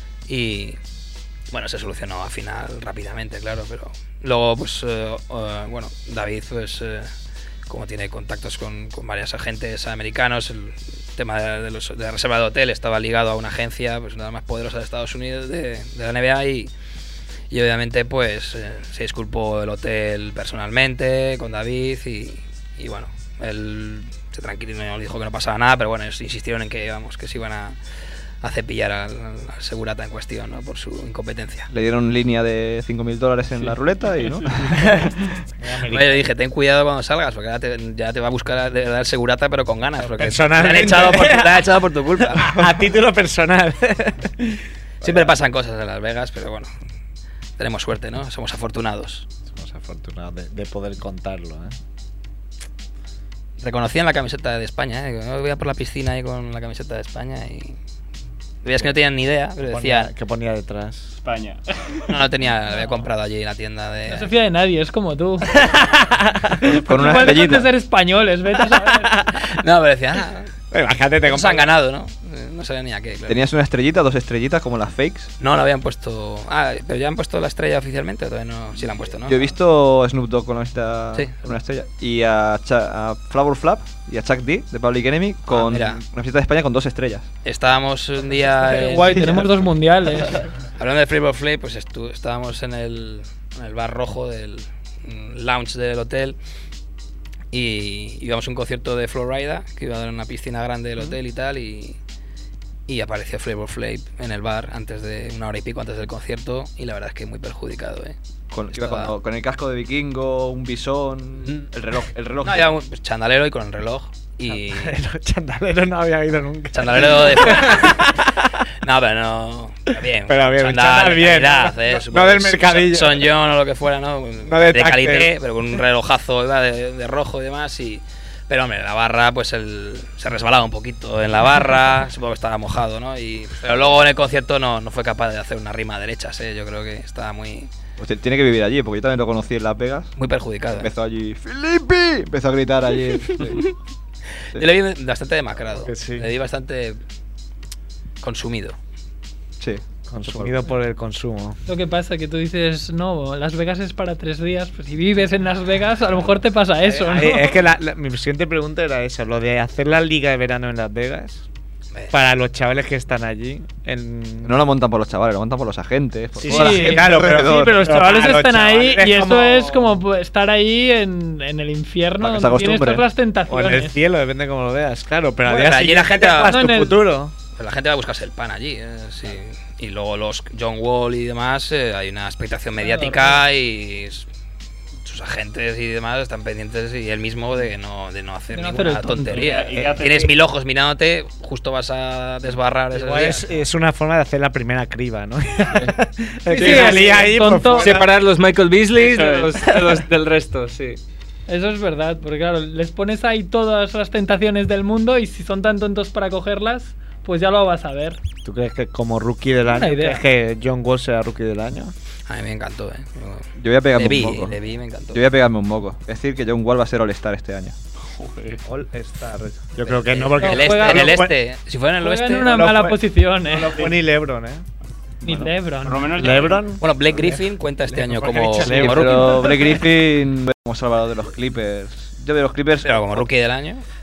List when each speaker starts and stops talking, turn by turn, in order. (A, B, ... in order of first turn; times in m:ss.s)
0:00.3-0:00.8 A
0:01.5-0:07.1 A
0:07.7-0:16.7 A
0:17.5-0:27.8 A
0:28.4-0:31.7 A
0:31.7-0:35.1 B
0:35.6-0:36.2 C
0:35.9-0:42.6 A
0:40.0-0:41.7 C
0:42.2-0:45.3 C
0:45.0-0:46.7 A
0:47.6-0:49.3 A
0:49.5-0:51.8 C
0:53.6-0:57.8 A
0:58.6-1:00.1 A
0:59.6-1:01.1 C
1:01.2-1:02.1 D
1:02.1-1:04.3 A
1:04.1-1:05.8 E
1:05.7-1:06.6 C
1:06.6-1:09.1 E
1:06.6-1:07.7 B
1:08.8-1:09.4 C
1:09.4-1:10.5 A
1:10.7-1:11.7 C
1:11.2-1:13.4 A
1:13.3-1:15.3 B
1:15.4-1:19.4 A
1:19.2-1:27.3 B
1:25.5-1:26.0 A
1:27.4-1:29.4 A
1:28.7-1:30.4 E
1:30.8-1:36.4 A
1:37.5-1:42.0 A
1:42.9-1:48.1 A
1:48.5-1:52.7 B
1:48.7-1:49.1 A
1:52.4-1:54.9 A
1:54.5-1:58.5 C
1:56.7-1:58.1 A
1:58.8-2:17.7 A
2:00.3-2:03.3 C
2:04.4-2:05.3 C
2:18.0-2:20.1 B
2:20.2-2:20.9 A
2:20.7-2:23.7 B
2:24.5-2:27.0 A
2:25.7-2:26.3 C
2:28.2-2:28.8 A
2:29.6-2:30.5 B
2:30.1-2:31.6 C
2:31.7-2:37.5 E
2:37.0-2:41.4 C
2:42.1-2:44.6 C
2:44.4-2:47.9 B
2:46.4-2:50.0 C
2:46.4-2:54.0 E
2:52.2-2:53.1 B
2:53.5-2:57.3 C
2:55.4-2:56.6 A
2:56.5-2:57.0 E
2:57.6-3:04.3 A
3:02.8-3:03.4 E
3:05.0-3:13.6 A
3:08.5-3:09.5 E
3:09.3-3:10.3 D
3:12.9-3:18.1 C
3:16.5-3:17.9 E
3:16.6-3:21.0 F
3:19.0-3:19.6 D
3:21.5-3:28.2 E
3:28.4-3:31.9 C
3:29.7-3:30.2 E
3:32.3-3:35.2 A
3:33.6-3:34.6 B
3:35.1-3:37.8 B
3:38.0-3:38.6 D
3:38.6-3:41.3 C
3:39.8-3:42.7 A
3:40.4-3:41.2 E
3:42.0-3:43.9 E
3:42.4-3:44.6 C
3:45.2-3:46.0 E
3:45.8-3:46.7 D
3:46.1-3:49.8 C
3:46.8-3:49.5 A
3:48.6-3:53.3 B
3:52.8-3:53.8 A